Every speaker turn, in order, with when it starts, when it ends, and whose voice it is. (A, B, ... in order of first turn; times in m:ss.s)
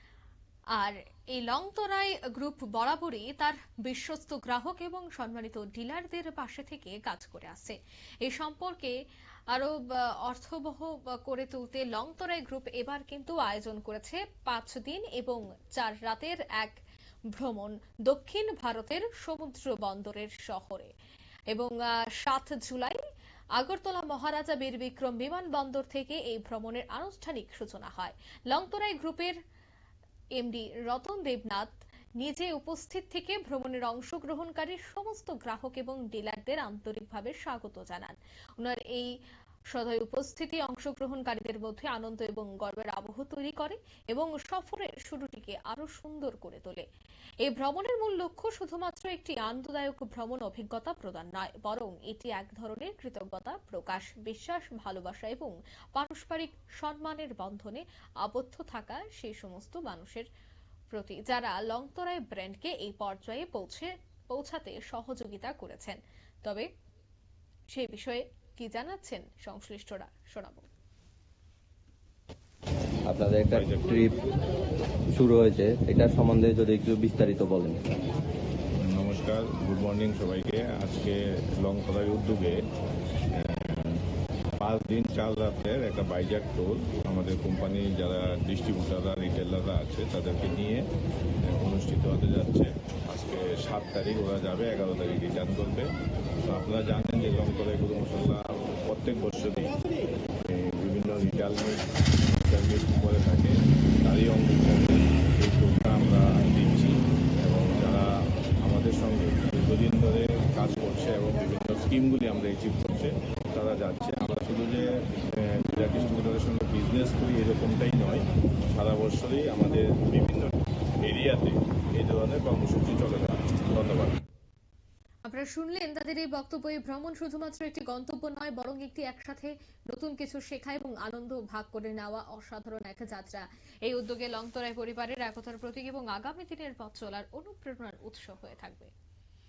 0:00.7-0:09.0 A
0:09.5-0:16.8 A
0:17.3-0:20.9 A
0:21.5-0:23.0 A
0:23.6-0:29.4 A
0:30.4-0:39.1 A
0:39.7-0:46.8 A
0:47.4-1:00.3 A
1:00.9-1:06.7 A
1:07.7-1:10.7 A
1:13.1-1:14.1 B
1:13.5-1:13.9 C
1:15.1-1:17.8 B
1:18.8-1:22.6 C
1:23.3-1:24.0 C
1:24.6-1:30.8 C
1:31.4-1:35.9 C
1:36.4-1:39.8 C
1:40.4-2:04.2 C
2:05.2-2:18.9 A